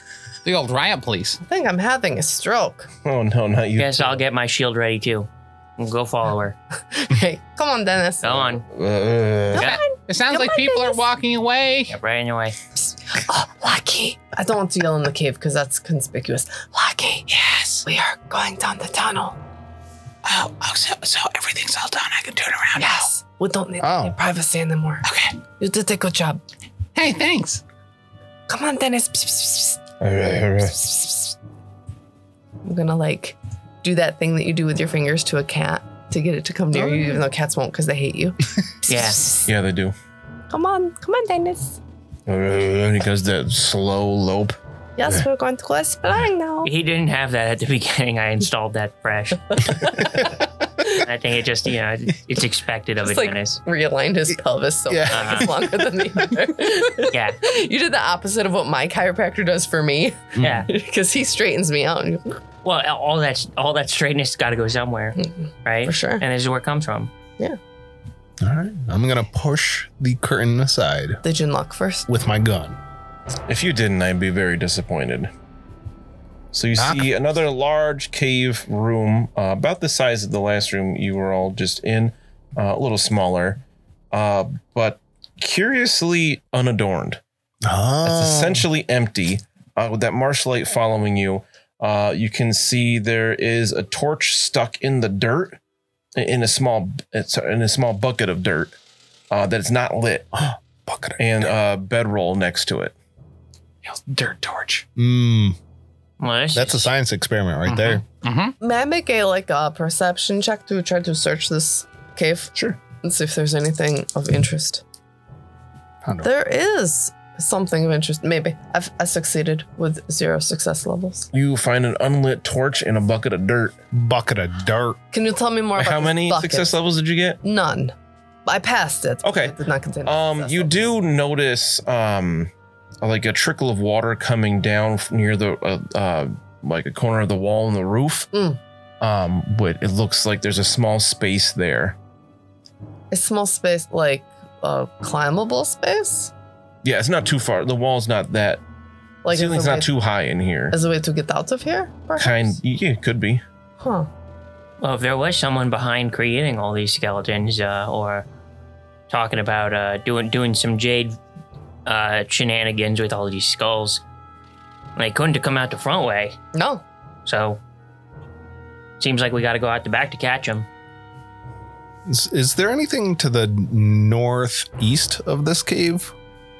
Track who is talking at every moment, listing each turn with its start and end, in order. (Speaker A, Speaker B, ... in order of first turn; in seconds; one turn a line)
Speaker A: 0.4-1.4
Speaker B: 1.4-2.9
Speaker C: 3.0-4.1
Speaker D: 3.8-6.5
Speaker B: 6.9-8.4
Speaker D: 8.2-8.6
Speaker C: 8.7-9.7
Speaker B: 9.5-11.0
Speaker A: 9.6-11.9
Speaker D: 11.9-12.6
Speaker B: 12.8-17.3
Speaker A: 17.3-17.9
Speaker B: 17.9-19.4
Speaker A: 20.2-23.1
Speaker B: 22.8-25.0
Speaker E: 23.8-24.2
Speaker A: 25.0-25.3
Speaker B: 25.6-26.4
Speaker A: 26.9-27.6
Speaker B: 28.5-29.8
Speaker C: 30.0-30.8
Speaker B: 30.5-31.4
Speaker B: 32.6-39.5
Speaker E: 36.7-37.1
Speaker D: 38.9-39.2
Speaker C: 39.4-39.9
Speaker B: 40.5-41.8
Speaker C: 42.3-44.6
Speaker B: 45.0-46.7
Speaker D: 46.6-49.8
Speaker B: 49.5-50.9
Speaker D: 50.9-53.6
Speaker B: 53.0-62.4
Speaker E: 54.9-56.0
Speaker D: 55.1-55.5
Speaker D: 57.1-57.4
Speaker E: 60.4-60.6
Speaker D: 60.4-60.7
Speaker D: 62.6-67.1
Speaker B: 65.8-66.2
Speaker E: 68.4-71.2
Speaker B: 71.2-72.1
Speaker E: 72.1-72.8
Speaker C: 73.5-75.3
Speaker C: 76.5-87.2
Speaker E: 76.8-77.0
Speaker E: 87.6-88.6
Speaker C: 88.0-95.6
Speaker C: 96.2-98.7
Speaker C: 99.3-100.3
Speaker E: 100.3-101.5
Speaker C: 101.2-102.9
Speaker A: 103.8-104.8
Speaker E: 105.0-105.5
Speaker D: 106.2-106.9
Speaker E: 106.5-108.0
Speaker A: 107.7-108.5
Speaker B: 108.6-114.8
Speaker E: 116.0-116.3
Speaker B: 116.2-121.3
Speaker C: 121.3-123.8
Speaker E: 123.9-125.0
Speaker B: 125.1-126.7
Speaker C: 125.8-127.4
Speaker B: 127.4-127.9
Speaker B: 128.4-130.8
Speaker C: 129.2-138.3
Speaker B: 138.3-138.6
Speaker C: 139.0-142.0
Speaker B: 143.1-146.3
Speaker C: 146.8-148.6
Speaker B: 149.2-149.9
Speaker C: 149.3-150.8
Speaker B: 150.7-152.5
Speaker C: 152.2-153.4
Speaker B: 153.8-154.1
Speaker D: 154.8-158.3
Speaker D: 159.1-161.2
Speaker D: 161.8-164.0
Speaker D: 164.9-166.4
Speaker B: 166.5-166.8
Speaker D: 167.2-167.6
Speaker D: 169.0-170.7
Speaker E: 172.1-176.1